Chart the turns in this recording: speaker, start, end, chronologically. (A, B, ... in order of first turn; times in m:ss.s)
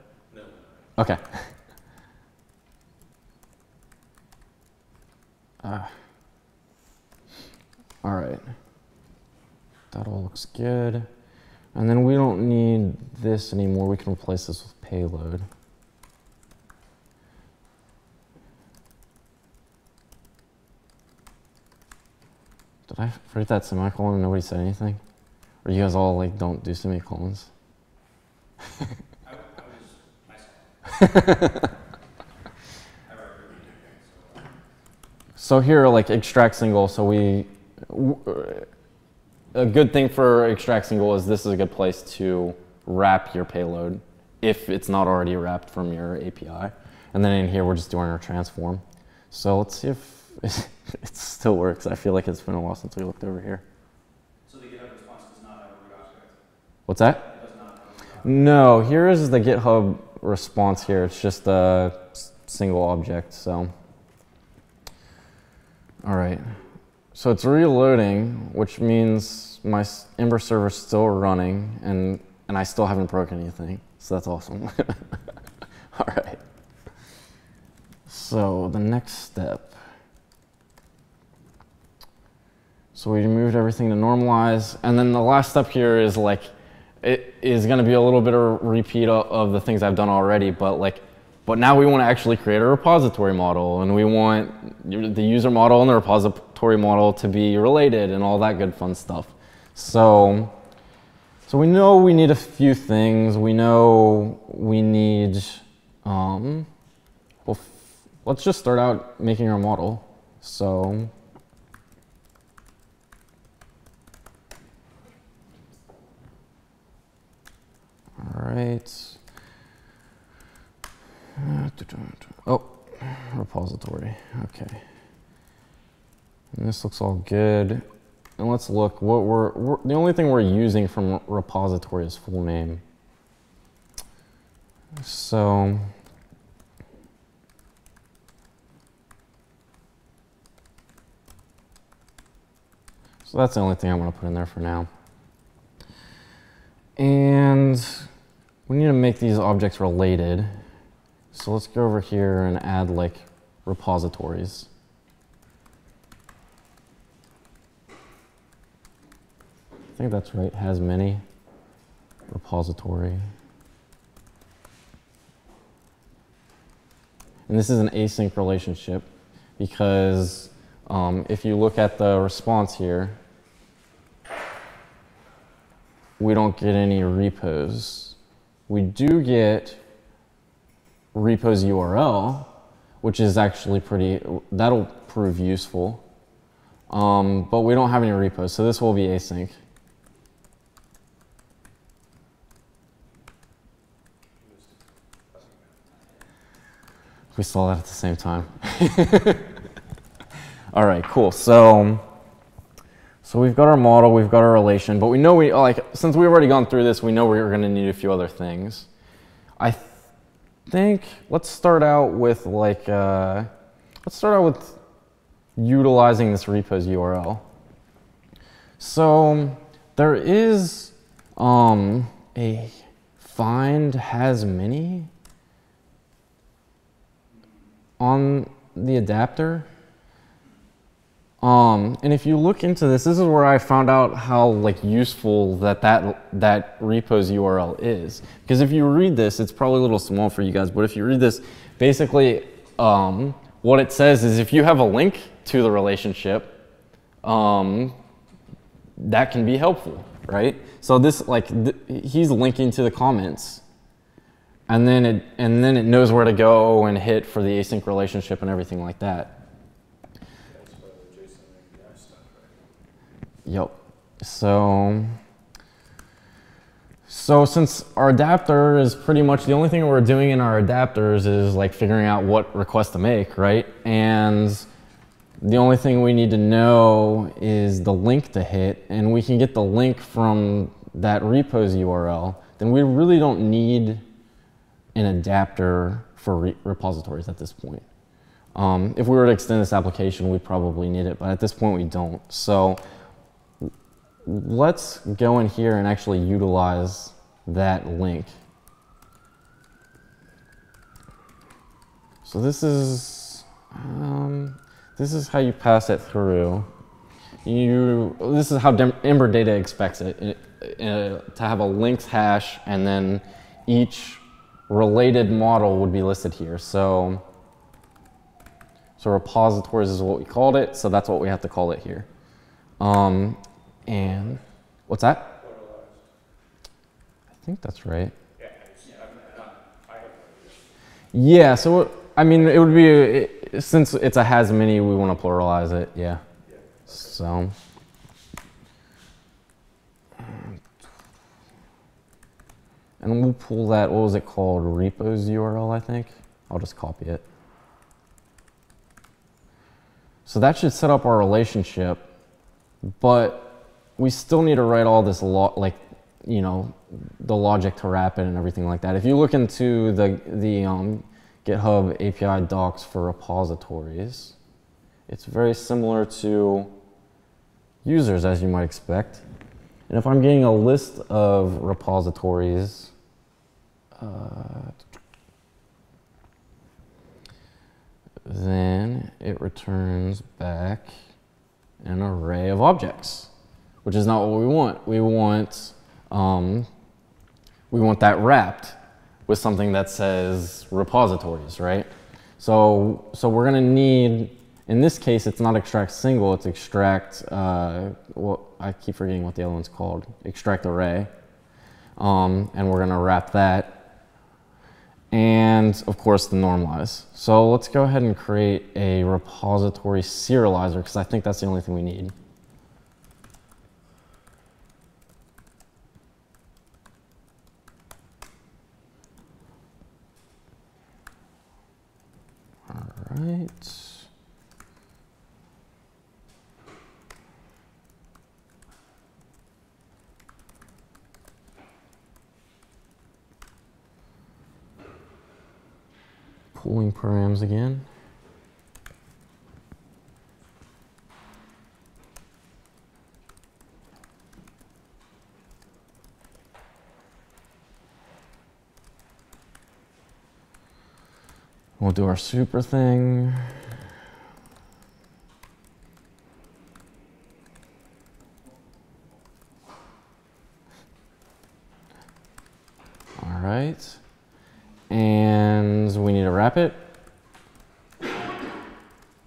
0:00.3-0:00.9 A
0:01.0-0:01.5 B
0:05.6-0:05.9 B
0:08.0-0:08.4 B
0:09.9-0:11.1 B
0:11.8-0:15.5 B
0:22.9-0:25.0 B
0:25.6-0:27.5 B
0:29.2-0:31.6 C
0:31.0-0:31.5 B
0:33.1-0:34.5 C
0:35.4-0:38.7 B
0:39.5-0:53.6 B
0:54.4-0:56.4 C
0:56.9-0:57.2 B
0:57.0-0:58.5 C
0:58.2-1:03.7 B
1:06.0-1:06.5 B
1:07.1-1:15.0 B
1:15.9-1:16.4 B
1:18.1-1:19.8 B
1:23.0-1:26.5 B
1:27.0-1:40.6 B
1:41.5-1:46.7 B
1:47.5-1:51.1 B
1:58.2-1:59.2 B
2:01.4-2:04.8 B
2:06.5-2:07.8 B
2:08.4-2:12.8 B
2:15.0-2:15.9 B
2:23.3-2:24.9 B
2:27.0-2:28.1 B
2:28.7-2:30.5 B
2:31.3-2:34.7 B
2:40.0-2:41.2 B
2:42.3-2:43.2 B
2:47.5-2:49.1 B
2:49.6-2:53.2 B
2:56.2-2:58.2 B
2:58.7-2:59.8 B
3:01.1-3:02.5 B
3:03.0-3:06.0 B
3:06.9-3:09.6 B
3:14.4-3:15.8 A
3:17.4-3:19.5 B
3:20.7-3:22.0 B
3:23.2-3:28.9 B
3:29.6-3:30.0 B
3:30.7-3:33.5 B
3:34.0-3:34.8 B
3:35.6-3:37.4 B
3:38.8-3:45.1 B
3:48.0-3:49.7 B
3:51.4-4:06.6 B
4:07.2-4:08.0 B
4:09.0-4:13.6 B
4:14.7-4:19.4 B
4:20.5-4:22.6 A
4:23.5-4:25.2 B
4:27.1-4:34.7 B
4:35.4-4:44.0 B
4:45.0-4:47.8 B
4:48.6-4:52.8 B
4:54.2-4:58.4 B
5:02.2-5:06.7 B
5:07.4-5:17.2 B
5:19.0-5:22.1 B
5:22.8-5:25.3 B
5:24.0-5:24.4 A
5:25.3-5:26.0 A
5:27.4-5:28.2 B
5:28.4-5:30.7 A
5:28.8-5:29.6 C
5:31.1-5:36.2 B
5:32.3-5:32.9 A
5:36.4-5:37.2 A
5:36.9-5:37.5 B
5:43.0-5:47.2 B
5:50.3-5:52.0 B
5:53.0-6:04.4 B
6:05.1-6:06.7 B
6:07.8-6:09.2 B
6:09.9-6:12.9 B
6:14.0-6:14.8 B
6:18.3-6:20.9 B
6:21.8-6:23.3 B
6:23.8-6:26.7 B
6:27.7-6:41.1 B
6:42.0-6:43.8 B
6:45.1-6:52.1 B
7:02.7-7:04.1 B
7:16.6-7:17.9 B
7:31.8-7:33.6 B
7:43.2-7:44.0 B
7:44.9-7:46.8 B